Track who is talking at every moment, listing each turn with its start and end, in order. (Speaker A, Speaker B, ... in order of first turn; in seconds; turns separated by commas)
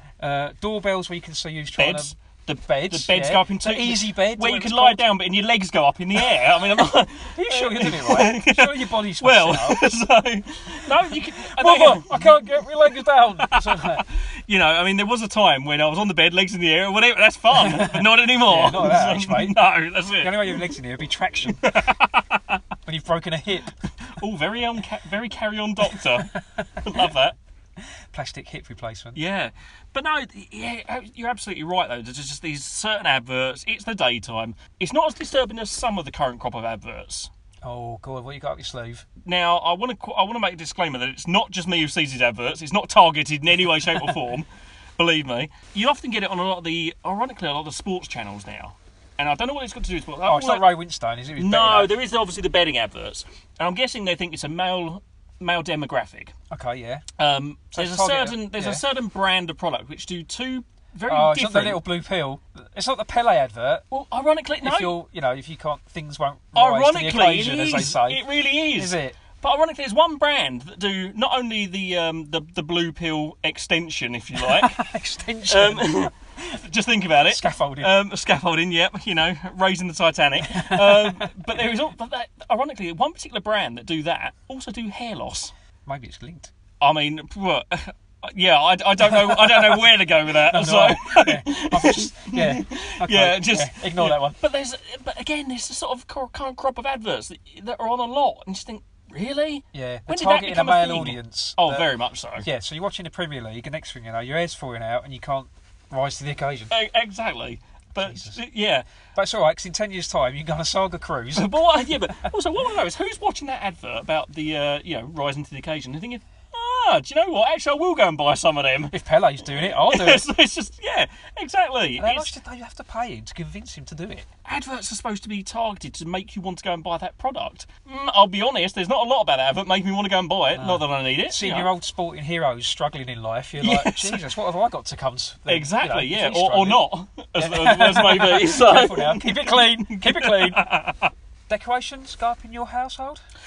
Speaker A: 0.2-5.0, Speaker B: 1.8-12.5, Speaker A: 7.3-9.8, Speaker A: 11.3-14.1, Speaker B: 13.4-20.6, Speaker A: 17.6-19.6, Speaker A: 20.2-21.7, Speaker B: 21.6-22.6, Speaker A: 22.9-23.8, Speaker B: 24.1-26.3, Speaker A: 26.3-26.8, Speaker B: 26.8-27.4, Speaker A: 28.1-29.2, Speaker B: 29.1-37.3, Speaker A: 37.6-39.1, Speaker B: 39.2-50.7, Speaker A: 50.2-51.9, Speaker B: 51.4-56.3, Speaker A: 56.5-57.0, Speaker B: 57.2-61.8, Speaker A: 57.7-58.8, Speaker A: 61.1-63.9, Speaker B: 63.9-64.9, Speaker A: 64.6-69.2, Speaker B: 66.5-74.8, Speaker A: 74.4-76.1, Speaker B: 75.5-85.5, Speaker A: 77.3-77.9, Speaker A: 80.4-81.3, Speaker A: 85.8-86.5, Speaker B: 86.8-102.5, Speaker A: 89.0-94.4, Speaker A: 99.7-106.7, Speaker B: 106.7-108.8, Speaker A: 108.0-108.4, Speaker A: 109.1-111.6, Speaker B: 111.3-118.9, Speaker A: 118.9-120.2, Speaker B: 119.5-122.3, Speaker A: 122.0-124.3, Speaker B: 124.4-131.7, Speaker A: 130.5-136.8, Speaker B: 133.6-134.2, Speaker B: 135.5-141.1, Speaker A: 137.4-140.7, Speaker A: 141.5-143.2